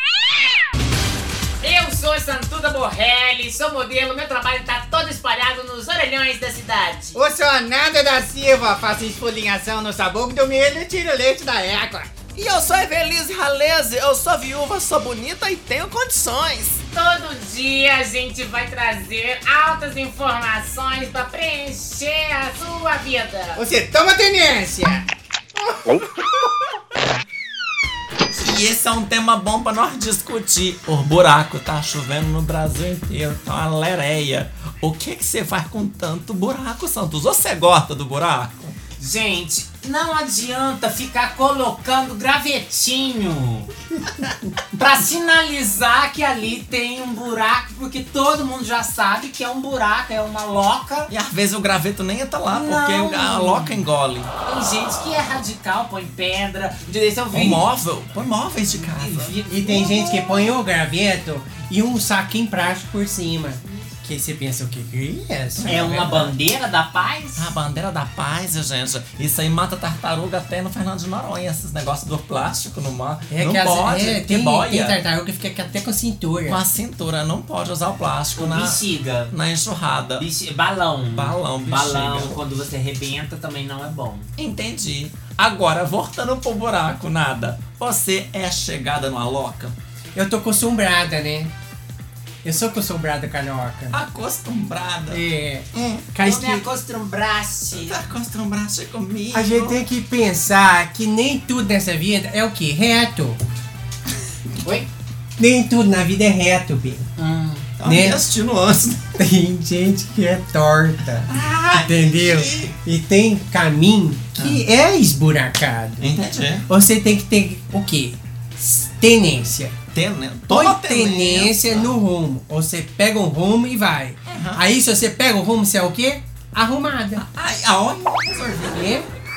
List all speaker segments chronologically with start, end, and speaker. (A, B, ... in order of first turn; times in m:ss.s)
0:01.6-0:07.2 A
0:07.2-0:12.1 B
0:12.4-0:16.8 C
0:16.9-0:23.6 A
0:23.6-0:25.1 B
0:25.6-0:26.0 B
0:28.3-0:38.8 C
0:39.0-0:43.7 A
0:44.7-0:51.1 A
0:51.1-0:54.3 C
0:52.5-0:53.8 A
0:54.4-0:57.6 A
0:57.3-0:59.4 C
0:58.7-1:00.3 A
0:59.5-1:05.8 D
1:05.6-1:06.3 C
1:05.7-1:07.5 A
1:07.4-1:15.0 C
1:13.3-1:16.6 D
1:16.5-1:20.2 C
1:18.4-1:19.3 A
1:20.2-1:24.3 A
1:21.2-1:22.4 C
1:24.4-1:29.8 C
1:30.2-1:31.5 D
1:32.4-1:34.0 D
1:33.9-1:35.2 C
1:35.1-1:36.7 D
1:35.7-1:36.1 C
1:36.2-1:38.0 A
1:37.8-1:39.8 C
1:39.3-1:43.4 D
1:45.4-1:47.0 D
1:47.2-1:47.7 A
1:47.8-1:49.2 C
1:47.8-1:48.2 D
1:49.2-1:59.8 D
1:51.2-1:52.8 C
1:54.4-1:54.6 C
1:56.0-1:56.7 C
1:59.9-2:02.0 C
2:00.5-2:07.2 D
2:04.3-2:04.7 C
2:07.2-2:09.0 C
2:08.7-2:09.1 D